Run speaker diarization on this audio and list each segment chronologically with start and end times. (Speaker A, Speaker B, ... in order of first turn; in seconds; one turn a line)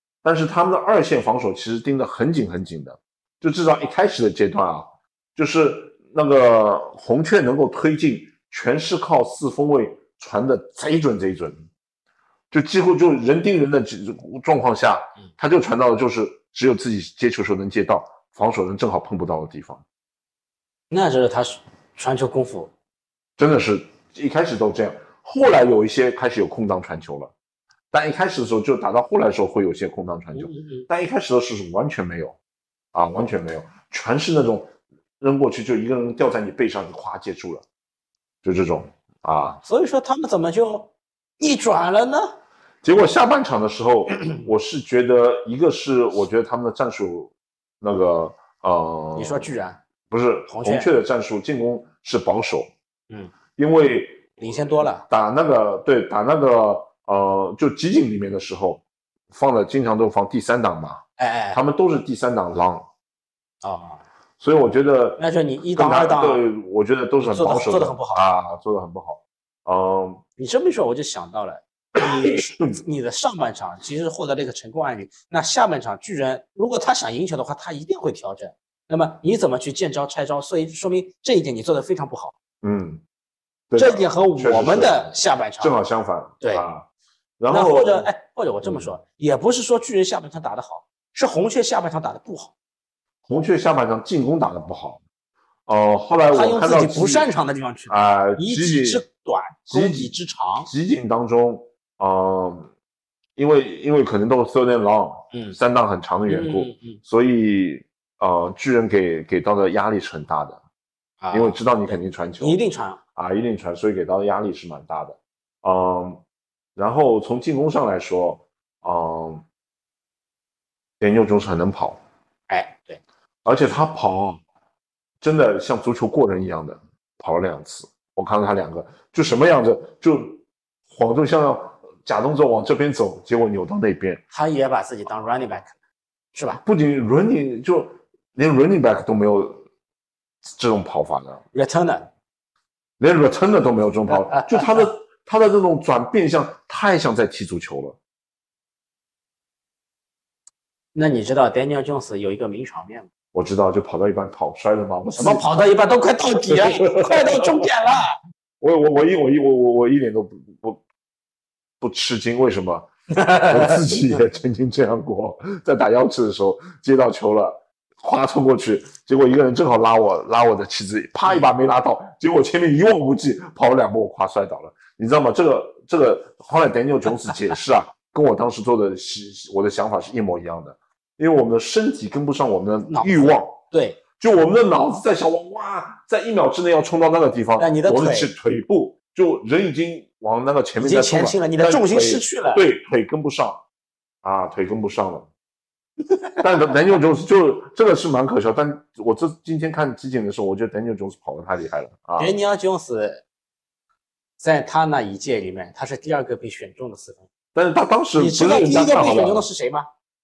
Speaker A: 0.2-11.7
Speaker A: 12.5-19.8
Speaker B: 20.9-22.7
Speaker A: 23.4-27.3
Speaker A: 27.9-32.4
Speaker B: 30.3-30.9
Speaker A: 32.9-37.6
Speaker A: 38.4-39.6
Speaker B: 39.6-42.4
Speaker A: 42.8-49.5
Speaker B: 49.1-49.8
Speaker A: 50.1-52.7
Speaker B: 50.5-50.9
Speaker A: 53.6-62.9
Speaker B: 54.4-55.0
Speaker B: 61.2-61.6
Speaker B: 63.6-64.0
Speaker A: 64.4-65.2
Speaker B: 65.2-66.5
Speaker A: 65.8-70.2
Speaker B: 67.2-68.2
Speaker B: 70.4-82.3
Speaker A: 72.2-72.5
Speaker A: 82.6-83.0
Speaker A: 83.7-86.9
Speaker B: 83.8-85.8
Speaker B: 86.4-86.7
Speaker A: 87.4-88.1
Speaker B: 87.5-92.5
Speaker A: 88.6-88.9
Speaker A: 93.3-95.0
Speaker A: 95.7-97.3
Speaker B: 96.3-100.7
Speaker A: 97.9-99.0
Speaker A: 99.7-102.7
Speaker A: 103.4-110.6
Speaker B: 105.3-105.6
Speaker B: 106.3-107.0
Speaker B: 111.2-113.0
Speaker A: 111.3-112.6
Speaker A: 113.2-116.2
Speaker A: 116.8-119.5
Speaker A: 121.0-122.0
Speaker B: 122.5-123.0
Speaker A: 123.5-124.4
Speaker A: 125.2-134.2
Speaker B: 134.3-135.8
Speaker B: 136.3-136.6
Speaker A: 136.6-139.6
Speaker A: 140.4-141.4
Speaker B: 141.5-142.1
Speaker A: 143.0-148.0
Speaker B: 144.1-144.9
Speaker B: 150.9-153.1
Speaker A: 153.3-155.4
Speaker B: 155.2-158.2
Speaker A: 156.5-157.7
Speaker A: 158.6-160.8
Speaker A: 161.8-183.6
Speaker B: 163.1-163.9
Speaker B: 182.9-184.0
Speaker A: 184.2-193.6
Speaker B: 187.6-188.3
Speaker B: 190.8-192.6
Speaker A: 194.2-195.3
Speaker A: 196.4-202.3
Speaker B: 202.2-203.2
Speaker B: 204.4-207.3
Speaker A: 207.6-209.5
Speaker B: 208.2-209.9